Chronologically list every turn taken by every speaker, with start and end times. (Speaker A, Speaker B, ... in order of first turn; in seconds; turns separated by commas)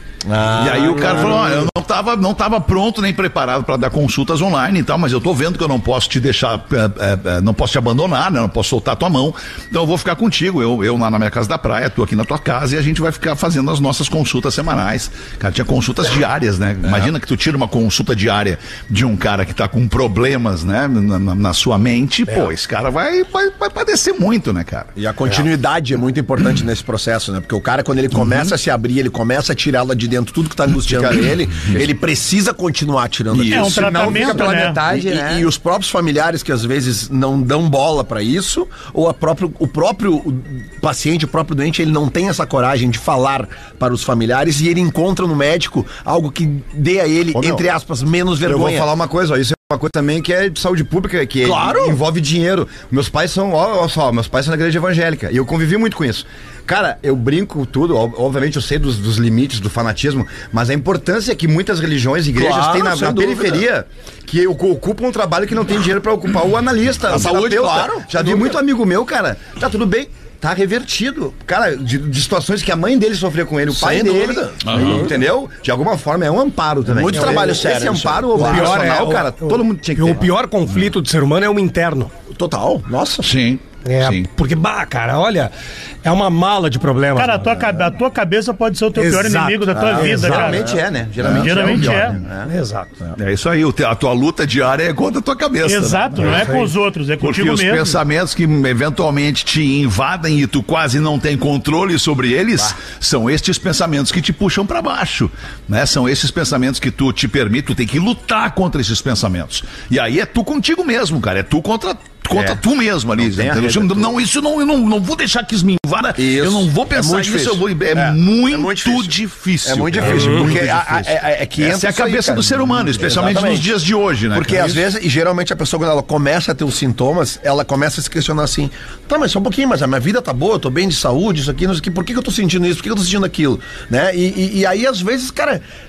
Speaker A: 0.3-1.7, Speaker B: 0.6-24.9, Speaker A: 25.0-48.9, Speaker B: 28.1-28.5, Speaker C: 30.9-31.9, Speaker B: 33.3-33.8, Speaker D: 33.5-34.8, Speaker C: 33.7-35.5, Speaker C: 47.3-47.7, Speaker C: 48.4-80.3, Speaker A: 51.4-52.0, Speaker A: 62.4-63.6, Speaker A: 67.1-68.5, Speaker A: 73.7-75.1, Speaker B: 74.6-75.0, Speaker A: 76.8-79.0, Speaker E: 78.3-82.1, Speaker A: 82.3-83.3, Speaker B: 83.2-84.3, Speaker E: 83.8-85.5, Speaker E: 86.0-87.9, Speaker D: 87.2-90.7, Speaker E: 89.0-90.6, Speaker C: 89.8-92.5, Speaker A: 89.8-90.8, Speaker B: 91.2-92.2, Speaker D: 91.3-92.2, Speaker E: 92.5-93.0, Speaker B: 93.2-96.5, Speaker D: 95.7-98.0, Speaker E: 96.2-96.7, Speaker B: 97.2-124.8, Speaker C: 112.3-112.6, Speaker C: 113.2-114.1, Speaker A: 116.2-119.1, Speaker A: 119.7-123.7, Speaker E: 120.0-120.5, Speaker A: 124.3-135.6